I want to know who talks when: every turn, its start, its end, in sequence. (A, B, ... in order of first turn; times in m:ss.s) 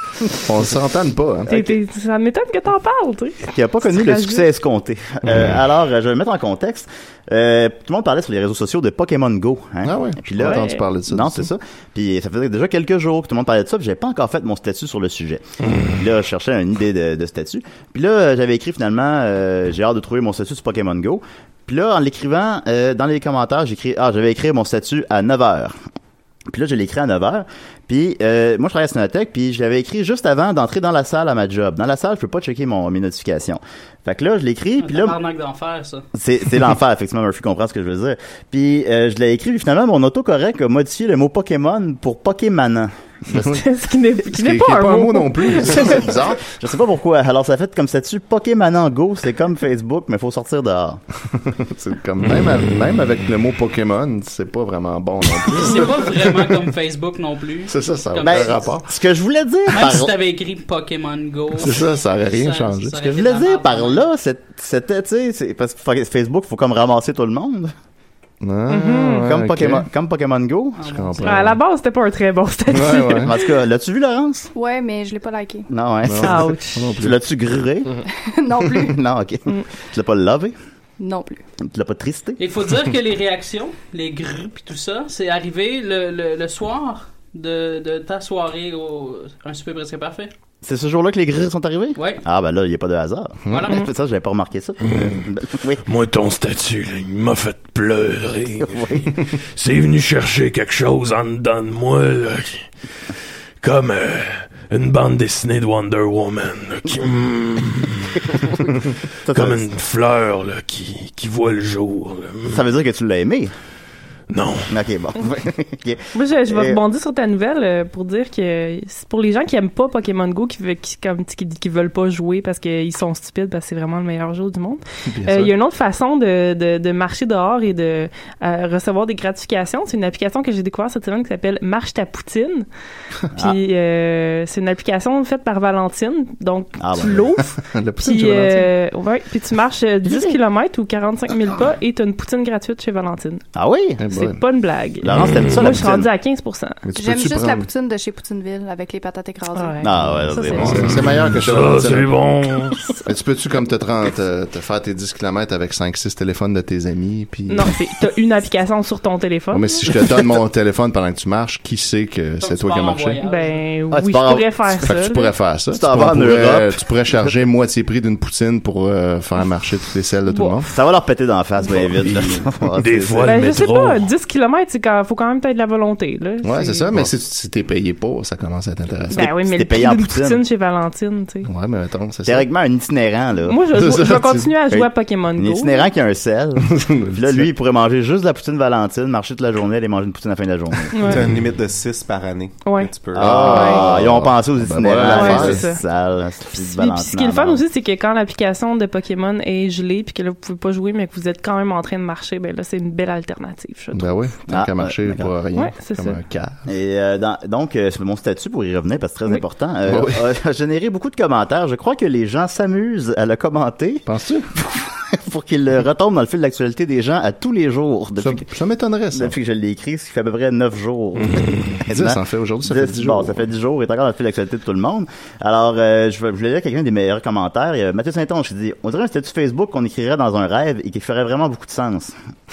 0:00.4-0:01.5 A
0:01.5-0:01.8 B
0:01.5-0:04.5 C
0:03.4-0:25.8 B
0:09.8-0:11.5 A
0:10.4-0:10.8 C
0:26.5-0:35.2 B
0:34.8-0:36.0 D
0:36.1-0:43.5 B
0:43.4-0:46.0 C
0:44.2-0:46.4 A
0:45.8-0:51.0 B
0:51.3-0:56.6 A
0:55.4-0:58.6 D
0:57.7-0:58.9 A
0:58.2-1:00.2 B
0:59.7-1:04.0 D
1:01.6-1:03.0 A
1:03.0-1:07.7 B
1:08.4-1:09.9 A
1:08.7-1:09.3 C
1:09.2-1:10.8 B
1:10.8-1:11.5 D
1:10.8-1:11.6 A
1:11.2-1:13.5 C
1:12.7-1:13.3 A
1:13.2-1:14.5 B
1:14.5-1:15.7 E
1:15.7-1:18.0 B
1:16.0-1:17.2 A
1:16.2-1:16.9 C
1:18.1-1:19.0 E
1:18.7-1:20.6 B
1:21.0-1:21.4 E
1:21.6-1:22.4 B
1:22.4-1:30.3 D
1:30.6-1:35.8 B
1:32.0-1:32.2 D
1:33.5-1:33.9 D
1:34.9-1:35.2 F
1:35.8-1:42.7 F
1:38.7-1:39.2 B
1:43.6-1:48.4 F
1:49.2-1:49.6 B
1:49.3-1:52.6 F
1:52.5-1:53.5 B
1:54.3-1:54.7 F
1:54.7-1:56.8 B
1:56.1-2:12.7 C
2:05.1-2:05.6 A
2:13.4-2:23.4 C
2:16.8-2:17.4 B
2:17.6-2:18.7 A
2:20.1-2:20.4 B
2:23.6-2:24.0 B
2:24.0-2:24.4 A
2:24.1-2:26.8 C
2:25.0-2:26.1 B
2:26.8-2:27.7 A
2:27.0-2:29.8 E
2:29.5-2:30.8 C
2:29.8-2:31.0 B
2:30.1-2:32.2 A
2:30.8-2:32.8 F
2:33.1-2:37.8 A
2:37.5-2:40.1 C
2:39.5-2:43.2 A
2:42.4-2:43.6 D
2:43.2-2:45.3 C
2:43.9-2:44.9 B
2:44.8-2:50.7 A
2:45.7-2:46.8 B
2:50.3-2:50.7 C
2:50.7-2:53.3 B
2:52.0-2:54.1 F
2:53.2-2:57.0 C
2:56.4-2:59.3 A
2:59.1-3:01.5 C
2:59.2-3:00.4 B
3:01.4-3:02.5 A
3:02.3-3:03.7 B
3:03.4-3:05.9 C
3:03.7-3:04.5 A
3:04.7-3:11.1 B
3:06.7-3:07.5 A
3:10.9-3:11.3 C
3:11.0-3:13.4 G
3:11.1-3:11.4 A
3:12.6-3:13.9 C
3:13.2-3:17.6 B
3:13.2-3:15.6 A
3:15.0-3:15.8 C
3:16.5-3:24.3 C
3:23.9-3:26.6 A
3:24.5-3:25.3 B
3:25.5-3:26.2 C
3:26.6-3:38.4 B
3:29.9-3:30.3 A
3:34.1-3:34.5 A
3:38.2-3:39.4 A
3:39.1-3:52.2 B
3:41.9-3:43.5 A